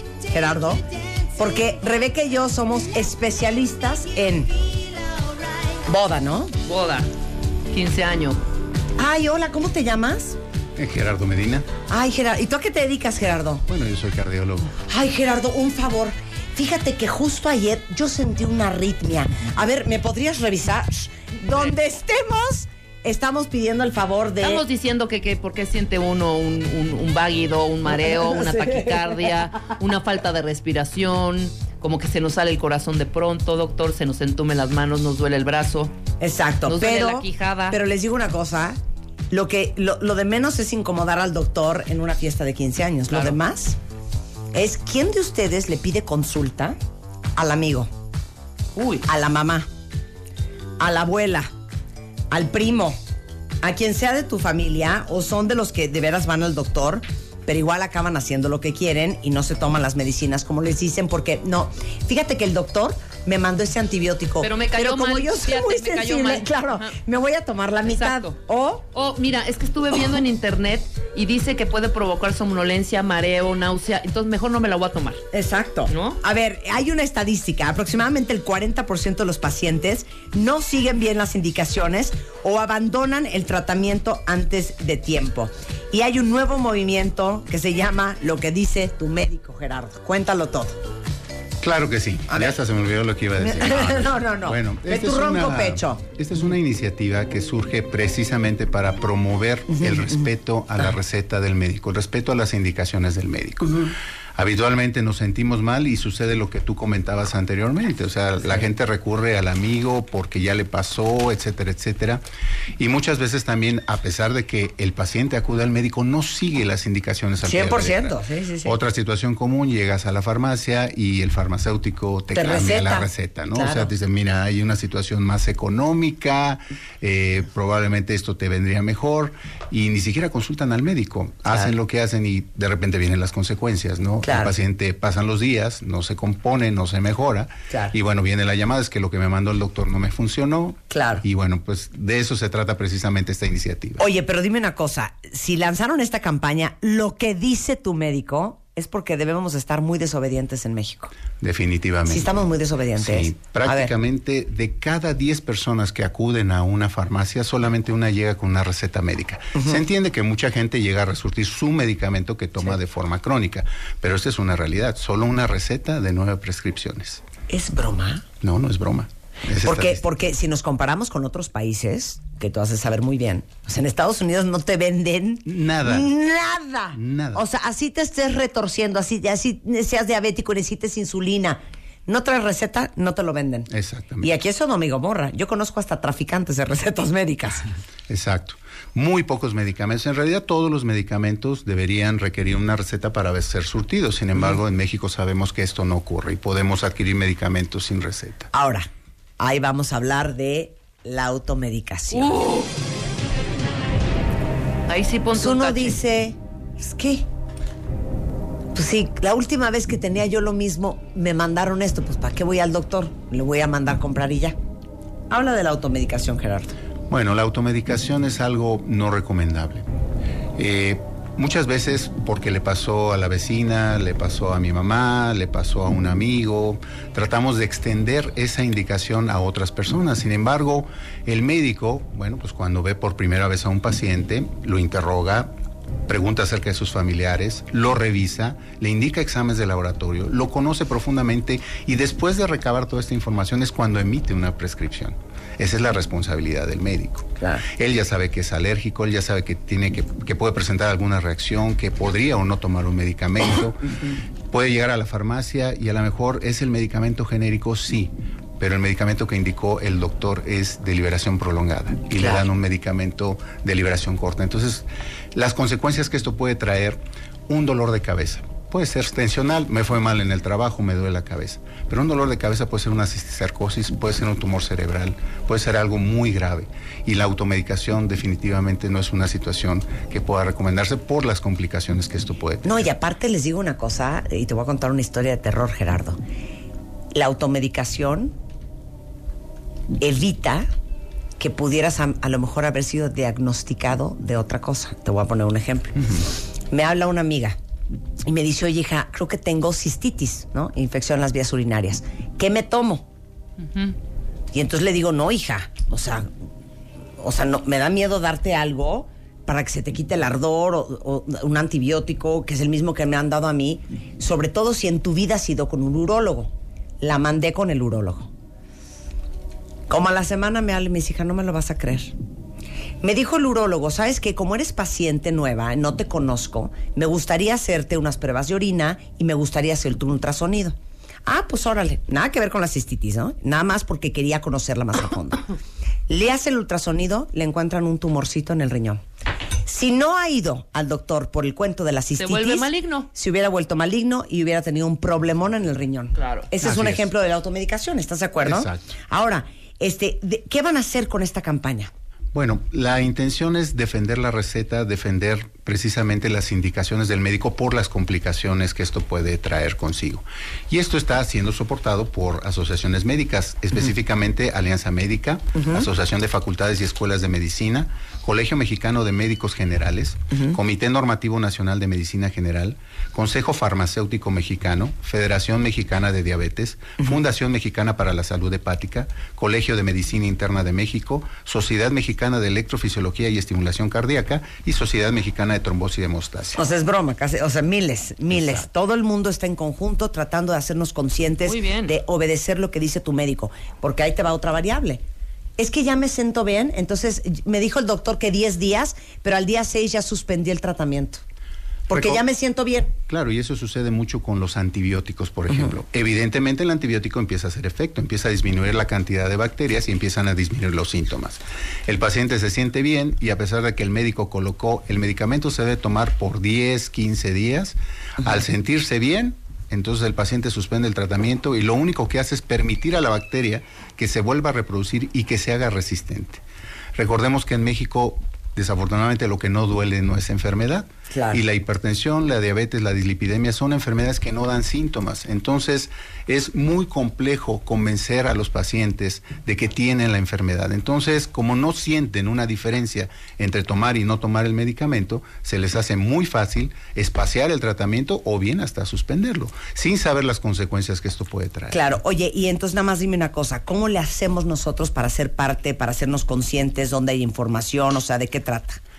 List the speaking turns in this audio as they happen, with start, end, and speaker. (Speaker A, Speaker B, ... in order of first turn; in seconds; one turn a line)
Speaker A: 0.3-0.8
Speaker A: 1.4-4.6
Speaker A: 5.9-6.5
Speaker B: 6.7-7.1
Speaker B: 7.7-8.4
Speaker A: 9.0-10.4
Speaker C: 10.8-11.7
Speaker A: 11.9-13.7
Speaker C: 13.7-14.7
Speaker A: 14.9-24.6
Speaker B: 24.4-35.9
Speaker A: 27.9-29.5
Speaker A: 36.2-38.8
Speaker B: 36.7-37.8
Speaker A: 39.3-43.8
Speaker A: 44.5-46.8
Speaker A: 47.4-47.9
Speaker B: 48.8-49.0
Speaker A: 49.0-49.7
Speaker A: 50.8-51.5
Speaker A: 52.3-53.0
Speaker A: 53.6-68.9
Speaker B: 64.4-66.9
Speaker B: 67.8-68.3
Speaker B: 68.9-75.2
Speaker A: 75.3-90.8
Speaker B: 75.9-76.2
Speaker C: 91.6-112.2
Speaker A: 92.3-92.5
Speaker A: 93.4-96.0
Speaker C: 112.8-144.0
Speaker A: 117.4-118.8
Speaker A: 122.3-123.9
Speaker A: 134.2-134.5
Speaker A: 137.7-137.9
Speaker A: 140.9-141.2
Speaker A: 144.0-151.1
Speaker C: 151.4-152.4
Speaker A: 152.1-153.9
Speaker C: 153.0-167.2
Speaker A: 159.6-159.8
Speaker A: 167.5-168.2
Speaker C: 168.4-170.0
Speaker A: 169.6-183.7
Speaker C: 175.4-176.1
Speaker C: 176.9-177.4
Speaker C: 183.7-184.3
Speaker A: 184.2-187.7
Speaker C: 188.1-198.5
Speaker A: 198.5-202.4
Speaker B: 202.1-202.7
Speaker B: 204.9-206.0
Speaker A: 205.3-207.2
Speaker A: 208.7-214.6
Speaker A: 215.3-216.8
Speaker C: 217.1-219.8
Speaker C: 220.6-235.5
Speaker C: 236.1-253.9
Speaker A: 247.4-247.7
Speaker C: 254.5-282.9
Speaker A: 282.6-286.2
Speaker A: 287.1-288.3
Speaker A: 290.0-290.7
Speaker A: 291.4-296.0
Speaker A: 296.7-297.6
Speaker A: 298.3-303.1
Speaker A: 304.5-306.3
Speaker A: 307.2-318.3
Speaker A: 319.9-322.1
Speaker A: 323.0-335.5
Speaker A: 336.1-339.0
Speaker A: 339.6-351.9
Speaker B: 342.2-343.1
Speaker B: 346.2-346.5
Speaker C: 346.6-347.1
Speaker C: 348.4-348.9
Speaker C: 352.3-386.6
Speaker A: 365.6-365.9
Speaker A: 386.6-395.0
Speaker C: 388.3-388.6
Speaker B: 391.4-391.9
Speaker A: 395.6-401.2
Speaker A: 401.9-402.9
Speaker C: 401.9-402.2
Speaker C: 403.1-426.4
Speaker C: 426.9-451.8
Speaker A: 431.1-431.4
Speaker A: 451.7-458.8